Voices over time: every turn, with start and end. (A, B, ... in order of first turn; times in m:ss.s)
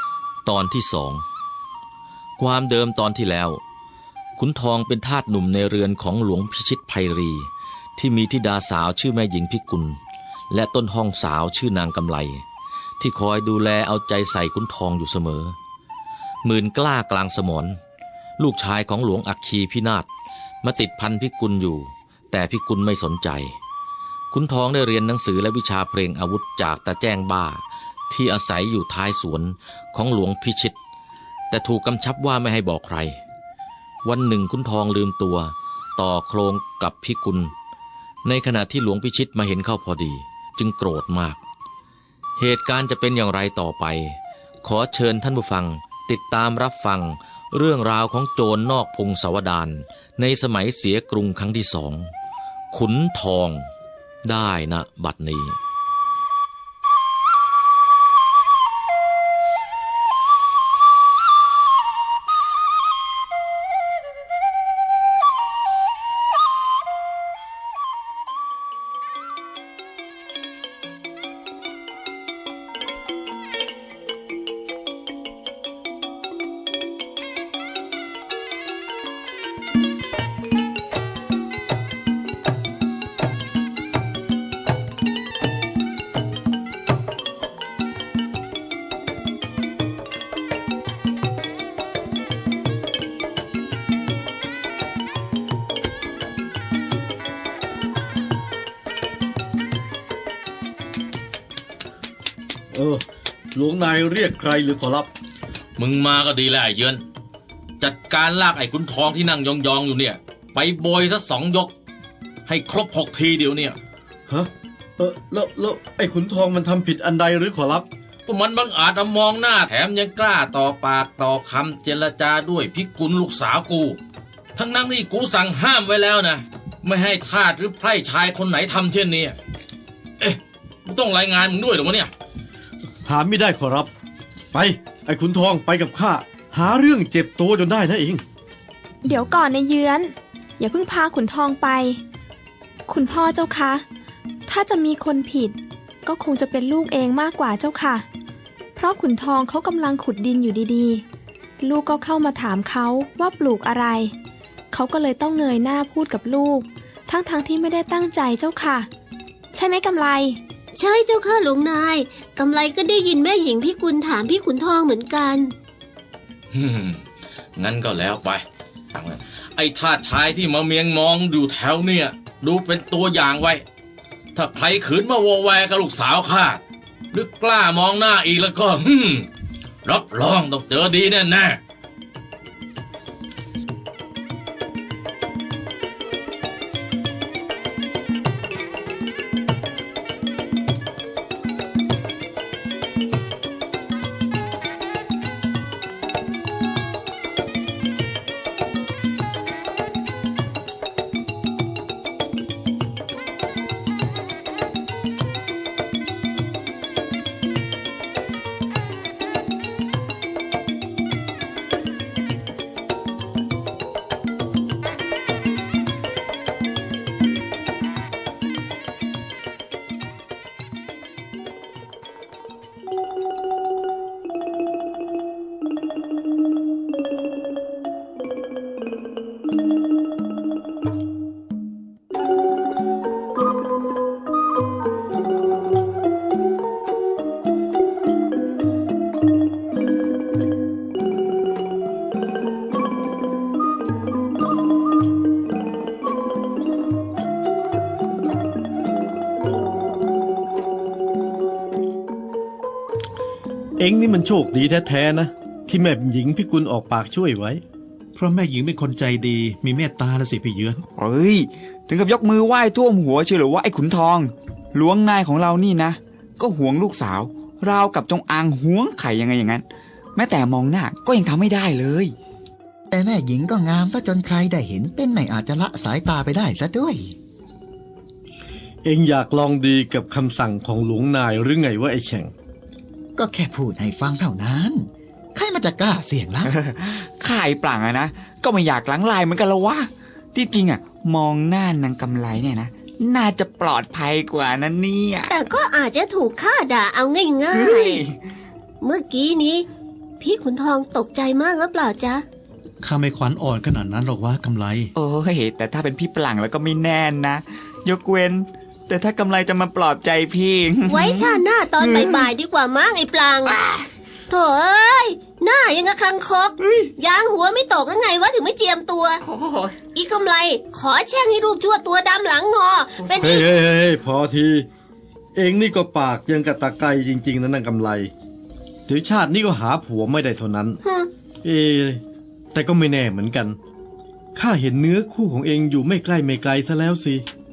0:00.4-0:01.2 A
0:02.4-0:03.6 A
0:04.4-0:10.0 A
0:10.5-0:12.4 A
0:13.0-0:15.6 A
0:16.4-0:17.8 A
0:18.4-0:20.1 A
0:20.6-0:23.6 A
0:24.3-0:30.8 A
0:31.5-0:33.2 A
0:34.0-0:37.5 A
0:38.2-0:41.4 A
0:42.4-0:52.1 A
0:52.7-0:53.7 A
0:54.2-0:55.6 A
1:42.7-1:45.1 B
1:45.8-1:47.0 A
1:47.8-1:51.7 A
1:52.5-1:53.8 A
1:54.3-1:57.9 B
1:58.3-2:04.0 A
2:04.6-2:09.4 A
2:10.2-2:12.1 A
2:13.0-2:13.9 B
2:14.5-2:18.2 B
2:19.0-2:22.0 C
2:22.9-2:23.8 C
2:24.5-2:28.1 C
2:28.8-2:31.0 C
2:31.6-2:34.1 C
2:34.7-2:38.9 C
2:39.5-2:40.4 C
2:40.7-2:45.5 D
2:46.5-2:47.0 A
2:47.6-2:53.6 A
2:54.4-2:56.6 A
2:57.1-2:59.3 A
2:59.8-3:01.6 A
4:13.8-4:17.6 B
4:18.2-4:20.8 E
4:21.0-4:29.6 F
4:30.2-4:32.1 F
4:32.9-4:37.1 G
4:38.8-4:42.3 B
4:43.2-4:46.5 G
4:46.5-4:55.3 F
4:55.3-4:58.0 D
4:57.5-4:58.2 F
4:58.8-4:59.7 D
5:00.2-5:02.2 D
5:02.8-5:04.9 E
5:05.0-5:12.3 F
5:10.9-5:13.6 D
5:14.3-5:19.2 D
5:16.6-5:16.9 F
5:19.9-5:23.5 D
5:23.2-5:24.7 B
5:25.4-5:28.1 B
5:28.9-5:30.8 B
5:30.8-5:31.1 D
5:31.4-5:32.0 B
5:32.5-5:33.6 B
5:34.3-5:37.3 B